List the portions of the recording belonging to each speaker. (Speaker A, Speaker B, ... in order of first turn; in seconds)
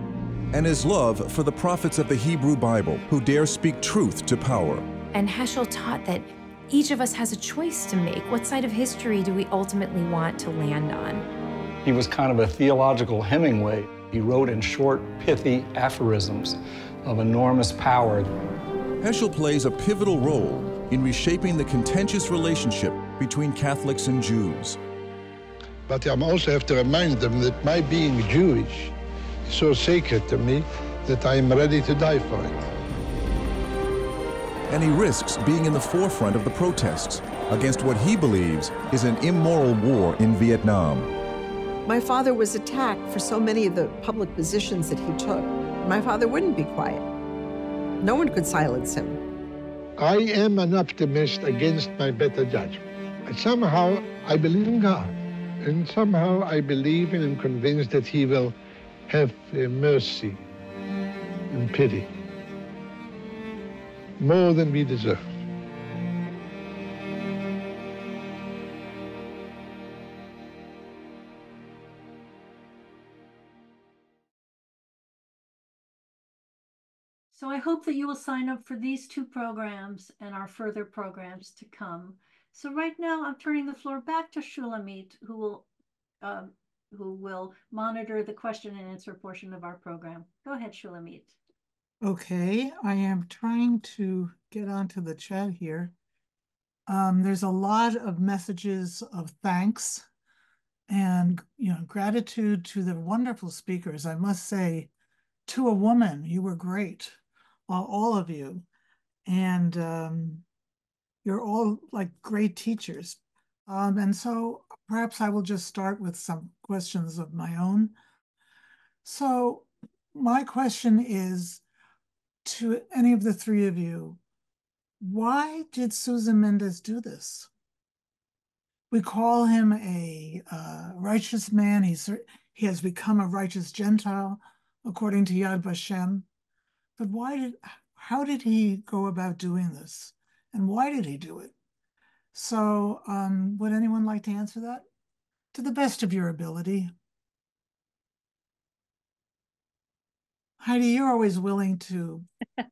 Speaker A: 0.5-4.8, 19.0-24.8, 34.7-41.1
Speaker B: 5.1-11.2
Speaker C: 11.8-18.3
Speaker D: 25.9-28.9, 29.5-32.7, 50.0-58.5, 59.1-60.4, 61.5-62.1, 64.2-65.2
Speaker E: 41.9-47.1, 48.0-49.2
Speaker F: 77.3-85.7, 86.2-91.3
Speaker G: 92.0-95.9, 96.9-100.0, 100.9-104.9, 105.5-108.6, 109.2-110.4, 111.2-118.0, 119.0-121.6, 122.4-124.2, 125.0-127.5, 128.9-136.2, 137.0-141.5, 142.3-144.8, 145.5-146.9, 150.6-152.2